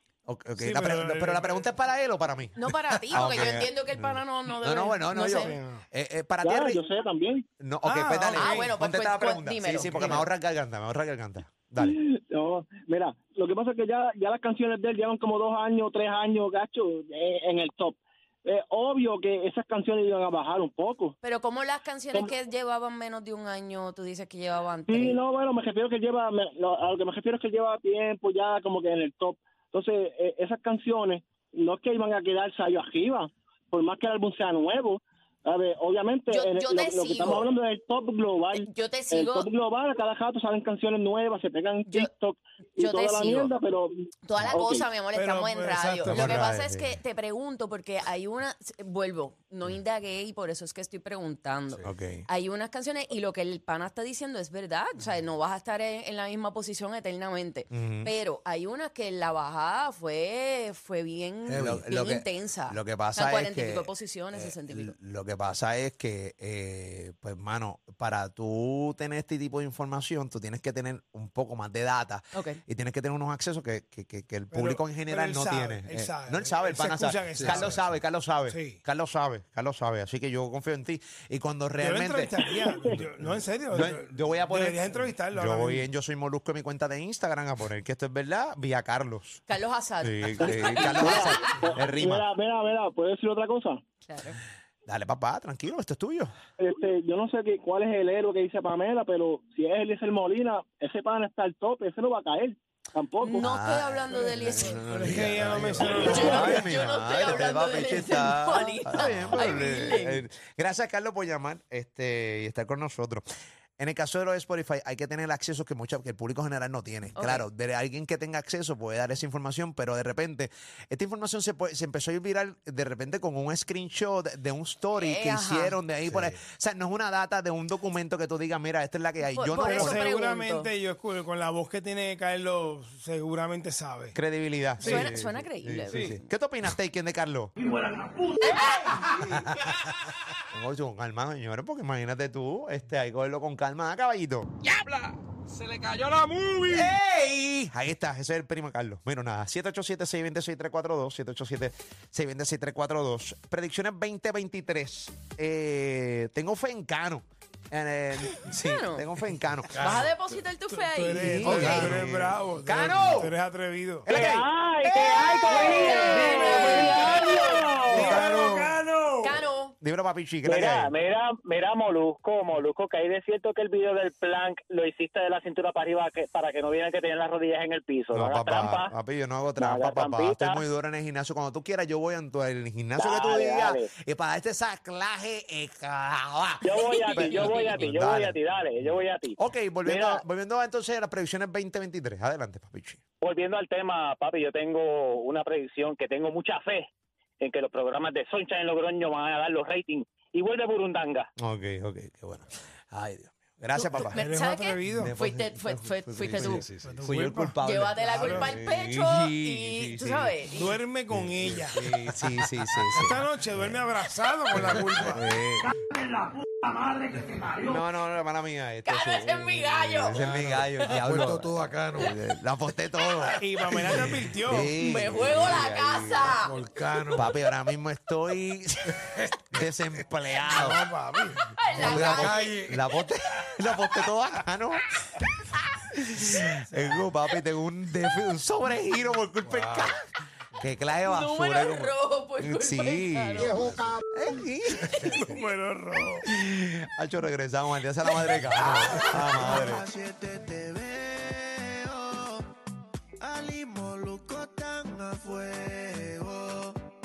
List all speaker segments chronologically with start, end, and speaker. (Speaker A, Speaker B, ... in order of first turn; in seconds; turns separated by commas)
Speaker A: 0.2-2.6, Speaker B: 0.6-1.7, Speaker C: 2.5-5.5, Speaker A: 3.1-6.8, Speaker B: 5.3-5.8, Speaker D: 6.4-7.4, Speaker A: 7.6-12.0, Speaker B: 7.8-8.7, Speaker C: 8.3-10.2, Speaker B: 9.9-10.3, Speaker D: 11.8-21.1, Speaker C: 21.2-25.2, Speaker D: 24.9-44.9, Speaker C: 36.3-37.5, Speaker C: 38.5-39.5, Speaker C: 42.8-43.5, Speaker C: 44.2-64.9, Speaker B: 45.1-46.4, Speaker A: 46.0-47.0, Speaker A: 51.8-52.3, Speaker A: 57.7-58.1, Speaker A: 61.5-82.3, Speaker E: 61.5-61.9, Speaker C: 72.3-72.6, Speaker B: 74.5-78.8, Speaker E: 77.3-78.0, Speaker B: 81.8-85.9, Speaker D: 82.4-83.0, Speaker A: 83.2-89.4, Speaker C: 89.5-91.7, Speaker A: 90.0-92.3, Speaker D: 90.4-93.8, Speaker C: 94.0-94.4, Speaker A: 94.8-96.3, Speaker D: 96.6-103.5, Speaker C: 103.2-105.2, Speaker A: 103.3-113.2, Speaker B: 104.9-106.7, Speaker C: 105.8-110.2, Speaker A: 113.8-130.1, Speaker C: 117.2-117.5, Speaker C: 125.0-125.8, Speaker E: 126.0-126.4, Speaker C: 129.3-130.7, Speaker B: 129.5-134.2, Speaker A: 134.1-137.5, Speaker B: 134.8-135.1, Speaker C: 134.8-136.3, Speaker A: 138.5-139.4, Speaker A: 140.5-144.5, Speaker B: 145.8-146.6, Speaker A: 146.6-160.1, Speaker C: 158.6-159.1, Speaker C: 159.7-161.9, Speaker E: 159.7-160.1, Speaker B: 160.7-164.2, Speaker E: 161.4-162.0, Speaker A: 161.4-163.4, Speaker A: 164.0-164.5, Speaker F: 164.1-168.2, Speaker C: 164.8-167.7, Speaker B: 166.0-169.5, Speaker A: 167.9-168.7, Speaker C: 169.2-169.7, Speaker A: 169.8-170.9, Speaker F: 170.4-178.9, Speaker A: 178.1-193.0, Speaker F: 179.6-180.6, Speaker F: 182.9-183.9, Speaker F: 186.6-190.2, Speaker C: 186.9-187.8, Speaker F: 193.2-196.9, Speaker F: 197.4-201.3, Speaker A: 201.4-204.2, Speaker B: 203.8-205.1, Speaker C: 203.9-206.7, Speaker A: 204.8-210.4, Speaker E: 206.2-207.1, Speaker B: 206.8-208.5, Speaker C: 207.6-210.8, Speaker B: 210.5-211.9, Speaker A: 211.1-213.9, Speaker B: 212.9-215.3, Speaker E: 214.5-215.2, Speaker A: 215.0-215.7, Speaker A: 217.6-226.4, Speaker C: 218.8-220.2, Speaker E: 220.1-222.2, Speaker B: 223.4-224.7, Speaker C: 224.7-226.5, Speaker E: 226.4-227.3, Speaker A: 227.1-230.9, Speaker B: 230.4-231.4, Speaker C: 231.6-232.6, Speaker E: 231.7-232.8, Speaker A: 231.8-235.3, Speaker A: 235.8-240.0, Speaker B: 236.5-237.1, Speaker E: 239.4-240.0, Speaker A: 240.5-245.2, Speaker C: 241.0-243.8, Speaker E: 243.5-243.8, Speaker B: 245.2-246.3, Speaker A: 246.2-249.8, Speaker G: 249.7-252.4, Speaker G: 253.2-256.8